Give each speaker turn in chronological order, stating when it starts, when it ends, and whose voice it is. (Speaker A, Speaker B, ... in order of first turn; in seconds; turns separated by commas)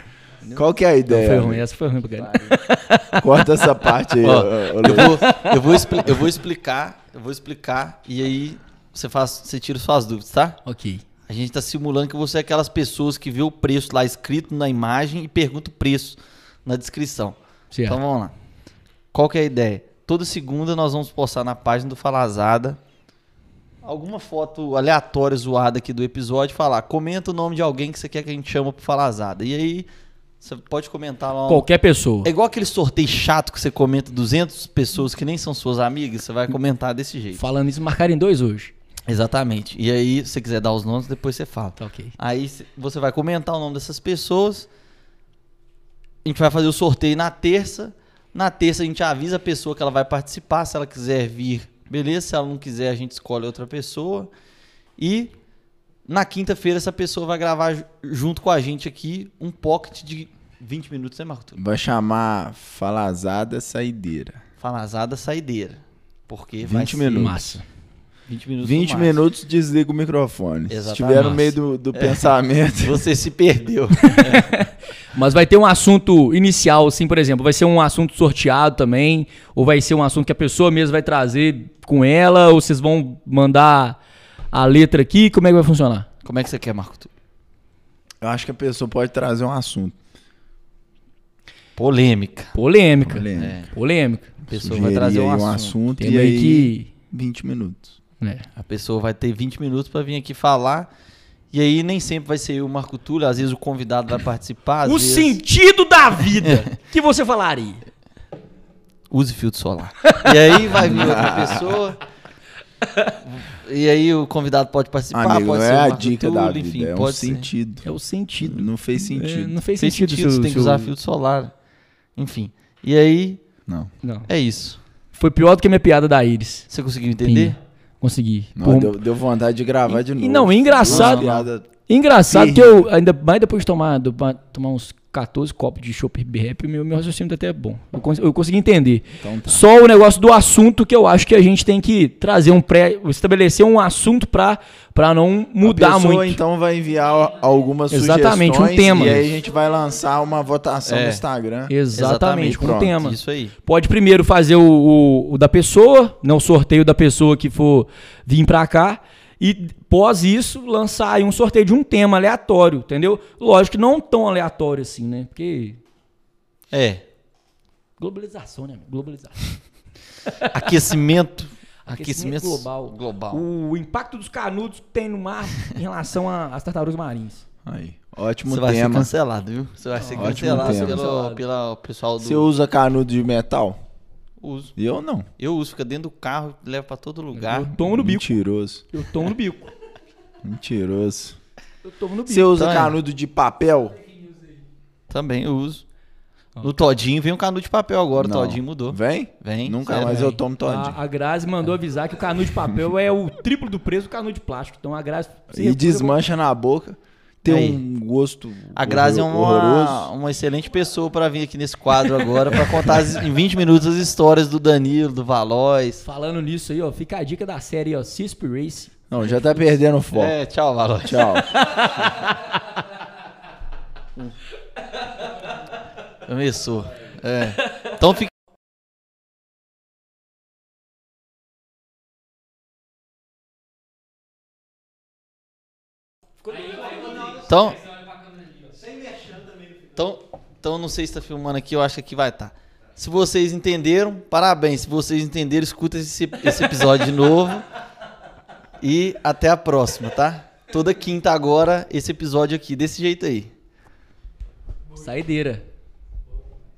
Speaker A: 0.5-1.6, Speaker B: 1.1-3.4, Speaker A: 3.2-5.2, Speaker C: 4.2-10.6, Speaker B: 4.9-6.0, Speaker B: 10.7-11.0, Speaker C: 11.3-18.3, Speaker B: 17.7-18.0, Speaker C: 19.1-22.8, Speaker C: 23.8-29.9, Speaker C: 30.4-31.7, Speaker B: 31.5-32.3, Speaker C: 32.2-37.4, Speaker B: 37.3-38.7, Speaker C: 39.1-44.7, Speaker B: 41.8-42.1, Speaker C: 46.2-54.3, Speaker C: 55.0-55.3, Speaker C: 56.1-61.6, Speaker A: 61.6-64.4, Speaker C: 64.6-67.2, Speaker A: 66.6-67.6, Speaker B: 67.1-67.6, Speaker C: 68.3-69.2, Speaker A: 68.6-73.1, Speaker C: 70.7-74.5, Speaker B: 71.2-71.4, Speaker B: 74.1-84.0, Speaker B: 84.5-86.1, Speaker C: 86.2-87.1, Speaker A: 88.2-90.0, Speaker C: 91.8-92.5, Speaker B: 92.5-94.3, Speaker A: 93.0-93.6, Speaker C: 93.3-93.7, Speaker C: 94.5-95.8, Speaker A: 94.5-98.0, Speaker B: 96.0-96.9, Speaker C: 98.6-100.9, Speaker C: 101.5-105.4, Speaker B: 104.8-107.8, Speaker C: 106.4-106.7, Speaker C: 109.1-112.0, Speaker B: 110.1-110.9, Speaker A: 110.7-111.8, Speaker C: 113.2-117.5, Speaker A: 115.1-119.6, Speaker B: 117.8-120.9, Speaker C: 119.8-121.5, Speaker C: 122.2-123.4, Speaker B: 124.0-124.3, Speaker C: 124.3-124.8, Speaker B: 125.1-126.7, Speaker C: 126.7-127.6, Speaker B: 127.2-129.0, Speaker A: 128.6-131.7, Speaker B: 129.9-146.4, Speaker C: 130.8-131.5, Speaker A: 132.3-132.9, Speaker A: 139.2-139.7, Speaker A: 145.6-151.8, Speaker B: 147.9-149.3, Speaker C: 150.8-151.2, Speaker B: 151.7-165.8, Speaker C: 151.9-153.6, Speaker A: 152.4-153.0, Speaker C: 166.7-167.0, Speaker B: 168.0-169.6, Speaker C: 170.5-173.4, Speaker B: 171.9-177.4, Speaker A: 177.7-179.1, Speaker C: 178.5-182.5, Speaker B: 179.9-181.4, Speaker A: 180.2-181.0, Speaker A: 182.2-183.8, Speaker C: 184.4-184.7, Speaker A: 184.8-185.3, Speaker C: 185.4-187.7, Speaker B: 187.3-188.4, Speaker A: 187.7-188.9, Speaker B: 188.9-189.7, Speaker A: 190.4-191.4, Speaker B: 191.8-192.6, Speaker A: 192.2-194.0, Speaker C: 192.5-193.0, Speaker C: 195.1-195.8, Speaker B: 196.6-196.8, Speaker C: 196.6-200.4, Speaker A: 198.2-201.0, Speaker B: 200.0-206.2, Speaker A: 205.5-210.1, Speaker C: 207.5-207.8, Speaker C: 208.8-216.1, Speaker B: 216.0-219.4, Speaker A: 219.1-220.3, Speaker C: 220.1-221.3, Speaker A: 221.0-221.6, Speaker B: 221.4-222.8, Speaker C: 226.3-228.3, Speaker B: 236.4-237.3, Speaker C: 237.2-237.9, Speaker C: 239.0-239.4, Speaker C: 239.9-247.7, Speaker C: 248.8-253.5, Speaker B: 254.9-255.6